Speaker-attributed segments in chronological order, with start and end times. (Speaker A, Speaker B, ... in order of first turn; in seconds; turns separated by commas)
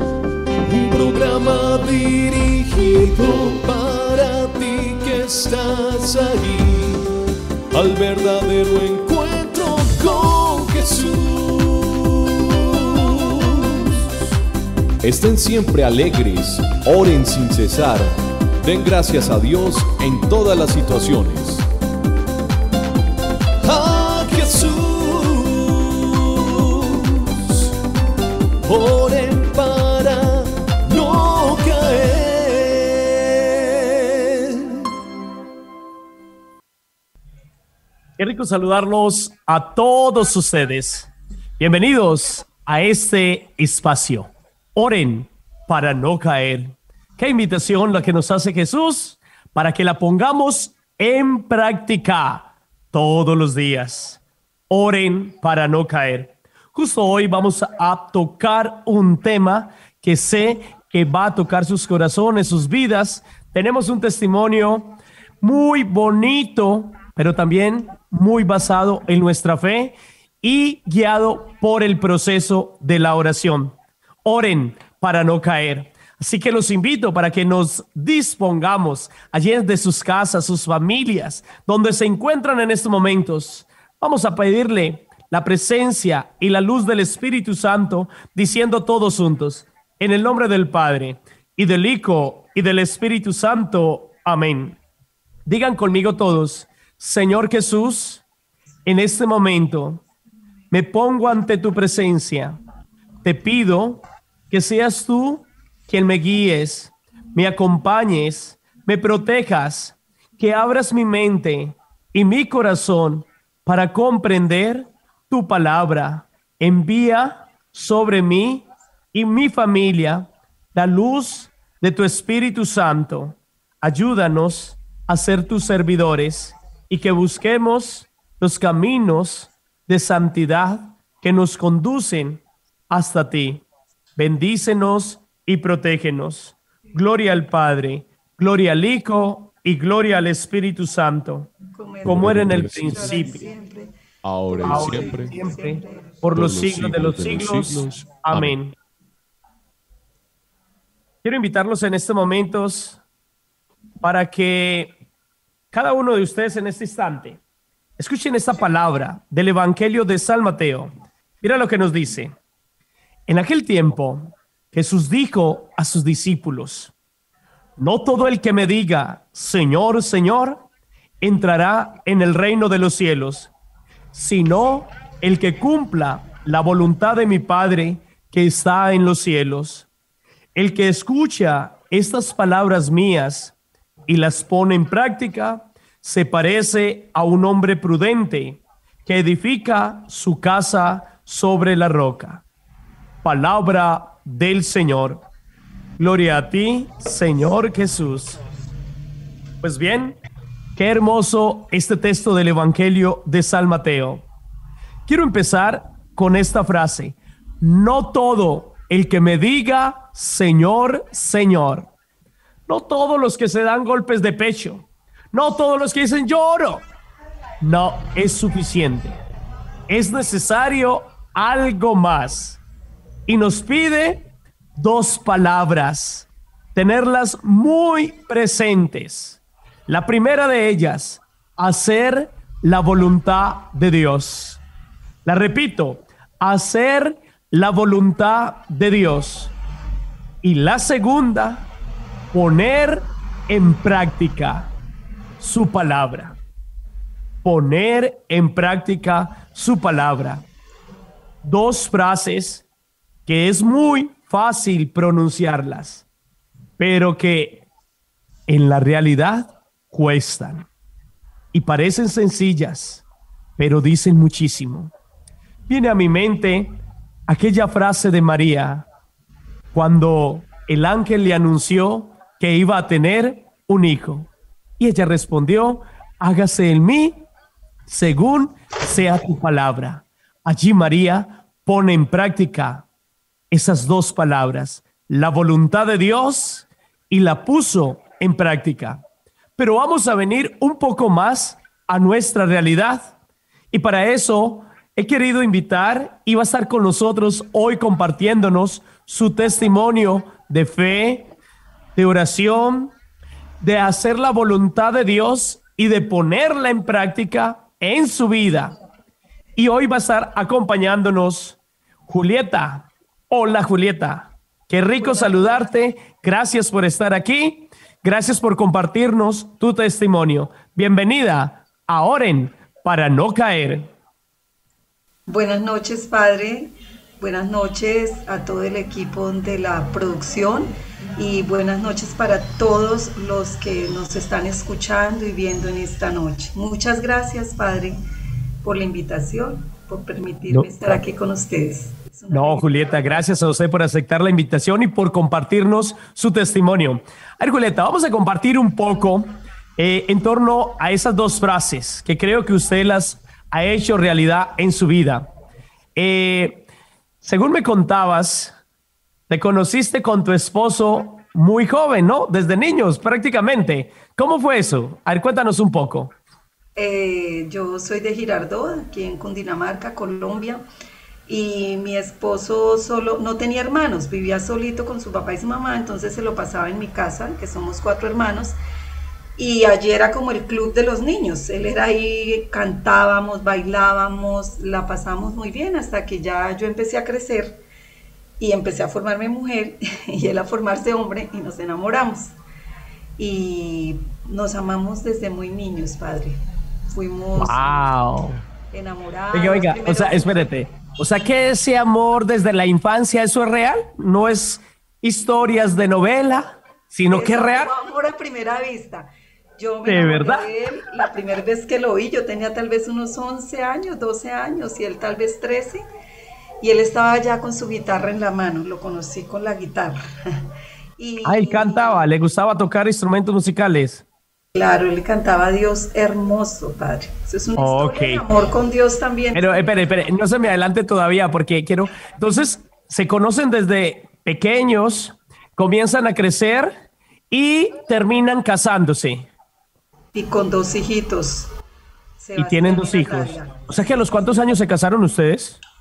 Speaker A: 0.6-7.0, Speaker A: 7.7-14.0, Speaker A: 15.0-21.7, Speaker A: 23.6-27.7, Speaker A: 28.7-34.9, Speaker B: 38.2-94.8, Speaker B: 95.5-98.2, Speaker B: 98.9-100.0, Speaker B: 100.7-102.6, Speaker B: 103.2-133.7, Speaker B: 134.2-141.5, Speaker C: 141.7-143.9, Speaker A: 142.1-143.3, Speaker B: 142.1-143.5, Speaker A: 144.2-145.4, Speaker C: 144.5-146.2, Speaker B: 144.6-148.8, Speaker A: 146.3-148.6, Speaker B: 151.2-153.0, Speaker B: 154.0-154.9, Speaker B: 155.7-157.4, Speaker B: 158.0-162.3, Speaker B: 163.3-166.9, Speaker B: 167.8-170.7, Speaker B: 171.2-173.5, Speaker B: 174.1-179.9, Speaker B: 180.6-183.6, Speaker B: 184.1-192.4, Speaker B: 193.2-195.2, Speaker B: 196.0-198.4, Speaker B: 199.6-200.2, Speaker B: 200.8-204.3, Speaker B: 205.1-211.9, Speaker B: 212.7-216.8, Speaker B: 217.6-219.2, Speaker B: 219.9-222.6, Speaker B: 223.3-224.2, Speaker B: 224.8-234.6, Speaker B: 235.2-239.5, Speaker B: 240.4-241.7, Speaker B: 242.3-244.7, Speaker B: 245.4-246.4, Speaker B: 247.4-250.4, Speaker B: 251.4-252.7, Speaker B: 253.3-256.1, Speaker B: 256.8-257.6, Speaker B: 258.5-260.7, Speaker B: 261.5-263.1, Speaker B: 263.6-264.9, Speaker B: 265.7-268.9, Speaker B: 269.7-277.3, Speaker B: 277.9-282.9, Speaker B: 283.5-289.0, Speaker B: 289.6-293.1, Speaker B: 293.7-301.3, Speaker B: 302.0-302.9, Speaker B: 303.6-308.7, Speaker B: 309.6-323.9, Speaker C: 315.0-315.6, Speaker C: 325.3-338.0, Speaker C: 338.6-343.2, Speaker B: 340.5-340.8, Speaker B: 342.3-355.3, Speaker B: 356.0-356.6, Speaker B: 357.2-358.5, Speaker B: 359.3-366.1, Speaker C: 366.8-370.6, Speaker C: 371.3-378.6, Speaker C: 379.4-387.6, Speaker C: 388.4-392.3, Speaker C: 393.2-396.4, Speaker C: 396.9-397.9, Speaker B: 397.4-398.4, Speaker C: 398.7-400.7, Speaker B: 399.3-407.7, Speaker C: 407.1-415.8, Speaker B: 409.9-410.5, Speaker C: 416.6-420.4, Speaker C: 421.0-422.1, Speaker B: 421.2-424.1, Speaker C: 424.6-430.2, Speaker B: 427.6-428.2, Speaker B: 429.3-436.7, Speaker B: 437.3-439.3, Speaker C: 440.1-441.5, Speaker C: 442.2-444.5, Speaker B: 442.4-445.6